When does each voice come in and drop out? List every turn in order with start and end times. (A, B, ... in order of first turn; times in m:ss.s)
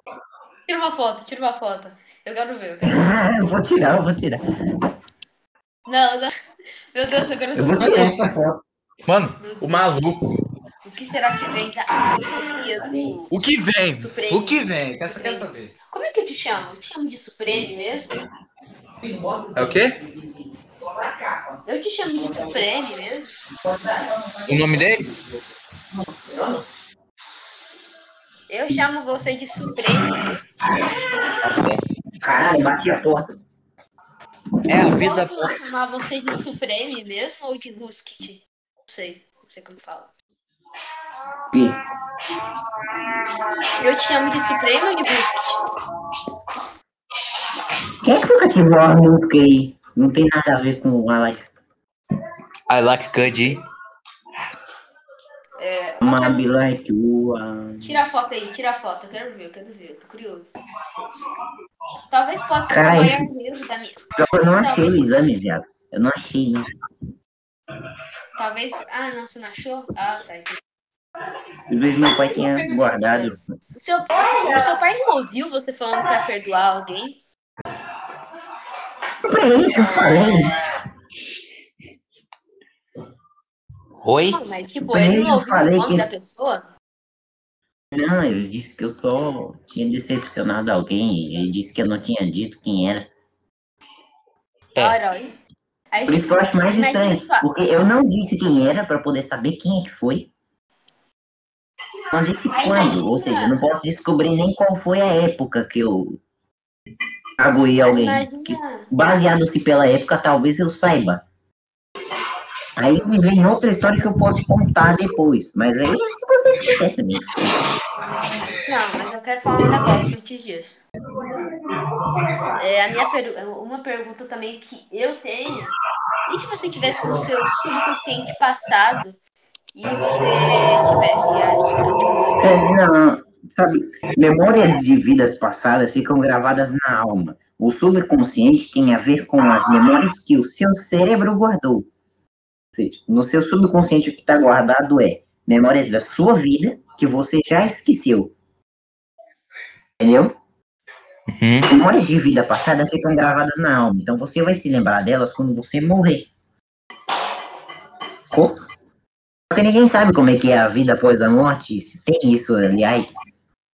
0:00.7-0:03.3 A
0:02.8-0:04.4 B
0:05.9-0:06.3 A
0:06.9-0:08.2 A
0:07.6-0:08.6 B
0:07.8-0:08.2 C
0:09.1-0:10.2 C
0:09.4-0:09.8 A
0:10.8-0:13.3 A
0:12.1-0:13.1 B
0:13.3-0:15.7 C
0:14.0-0:18.1 A
0:19.0-0:20.4 B
0:19.6-0:20.0 C
0:20.9-0:21.4 B
0:21.6-0:23.3 A
0:23.6-0:24.6 B
0:24.5-0:25.1 C
0:26.1-0:26.6 B
0:28.5-0:30.3 A
0:29.9-0:33.3 B
0:34.7-0:35.5 C
0:35.0-0:40.1 A
0:41.5-0:41.8 B
0:42.3-0:43.3 B
0:43.8-0:45.5 A
0:48.0-0:51.5 B
0:52.7-0:53.6 C
0:55.6-0:56.4 A
0:56.0-0:58.0 B
0:57.8-1:00.5 A
1:02.1-1:04.0 A
1:02.7-1:03.2 B
1:04.2-1:06.7 B
1:04.6-1:05.0 A
1:08.4-1:10.6 A
1:11.7-1:13.4 B
1:12.0-1:17.2 A
1:19.2-1:20.7 B
1:19.8-1:20.1 A
1:24.0-1:24.4 C
1:24.3-1:26.6 A
1:24.9-1:26.1 B
1:27.9-1:33.1 B
1:34.8-1:35.4 A
1:35.9-1:37.5 A
1:36.1-1:40.3 B
1:42.1-1:46.2 B
1:42.5-1:43.6 A
1:47.4-1:51.2 B
1:47.8-1:48.9 A
1:52.8-1:57.7 B
1:58.5-2:00.8 A
2:02.2-2:02.5 B
2:02.6-2:05.7 A
2:06.3-2:09.2 A
2:09.8-2:12.5 A
2:12.4-2:21.9 B
2:22.7-2:28.3 B
2:30.0-2:30.4 B
2:31.4-2:31.7 C
2:31.7-2:36.3 B
2:38.3-2:38.6 B
2:39.5-2:43.1 B